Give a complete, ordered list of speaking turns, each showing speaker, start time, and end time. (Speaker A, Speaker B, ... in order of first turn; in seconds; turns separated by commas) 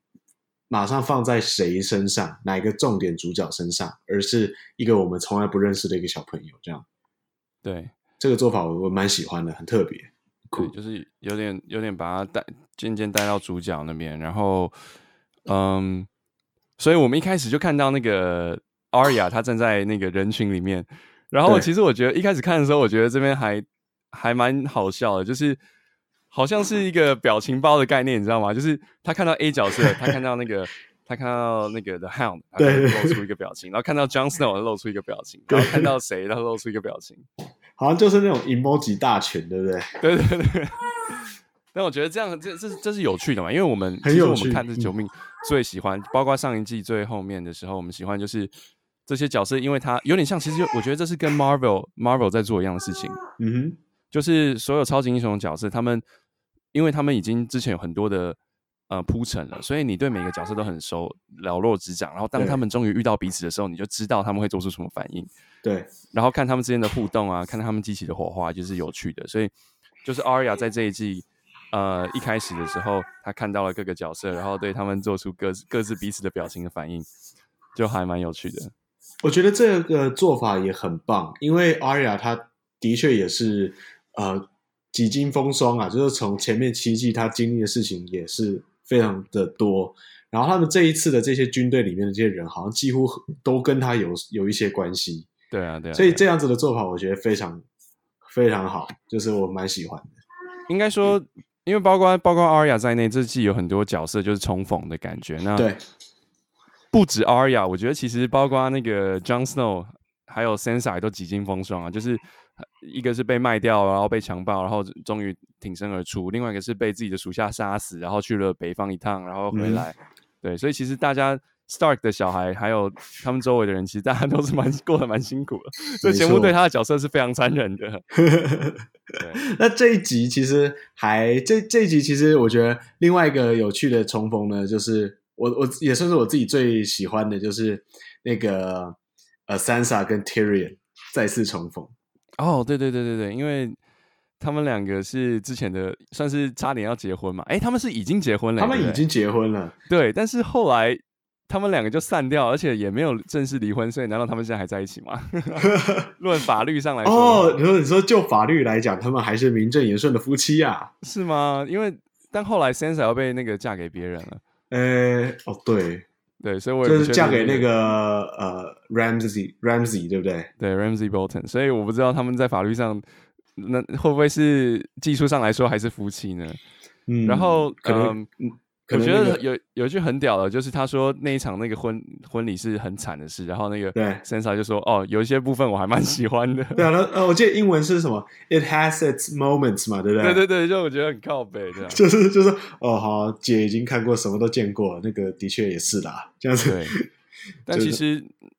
Speaker A: 0.7-6.8, Speaker B: 7.6-8.0, Speaker A: 8.2-10.7, Speaker B: 10.6-14.8, Speaker B: 15.5-16.1, Speaker B: 16.8-25.6, Speaker B: 26.3-37.3, Speaker A: 29.8-30.1, Speaker A: 32.6-33.2, Speaker A: 35.5-35.9, Speaker A: 37.8-39.9, Speaker B: 40.0-48.5, Speaker A: 44.0-44.9, Speaker B: 49.1-53.2, Speaker A: 53.4-53.8, Speaker B: 54.1-56.0, Speaker B: 56.7-58.4, Speaker B: 58.9-65.3, Speaker A: 65.6-65.9, Speaker B: 66.1-69.5, Speaker B: 70.0-77.1, Speaker B: 77.8-78.7, Speaker A: 79.2-95.3, Speaker B: 95.5-96.2, Speaker A: 96.0-97.6, Speaker A: 98.2-100.1, Speaker B: 100.7-105.7, Speaker B: 106.9-128.0, Speaker A: 119.5-119.9, Speaker A: 126.0-126.5, Speaker A: 128.2-128.8, Speaker B: 129.2-129.4, Speaker A: 129.4-139.0, Speaker A: 139.5-141.9, Speaker B: 142.4-143.8, Speaker B: 144.4-149.0, Speaker A: 148.6-149.8, Speaker B: 149.9-157.6, Speaker A: 155.6-156.1, Speaker A: 157.1-160.9, Speaker B: 161.0-164.4, Speaker A: 164.7-166.1, Speaker B: 166.4-167.7, Speaker A: 166.8-170.5, Speaker B: 170.6-173.0, Speaker B: 173.6-176.6, Speaker A: 177.1-179.4, Speaker B: 177.2-178.3, Speaker B: 178.9-186.9, Speaker A: 183.9-184.2, Speaker A: 186.8-190.4, Speaker B: 190.2-192.0, Speaker A: 191.9-197.1, Speaker B: 196.6-197.0, Speaker B: 197.7-198.3, Speaker A: 197.7-198.0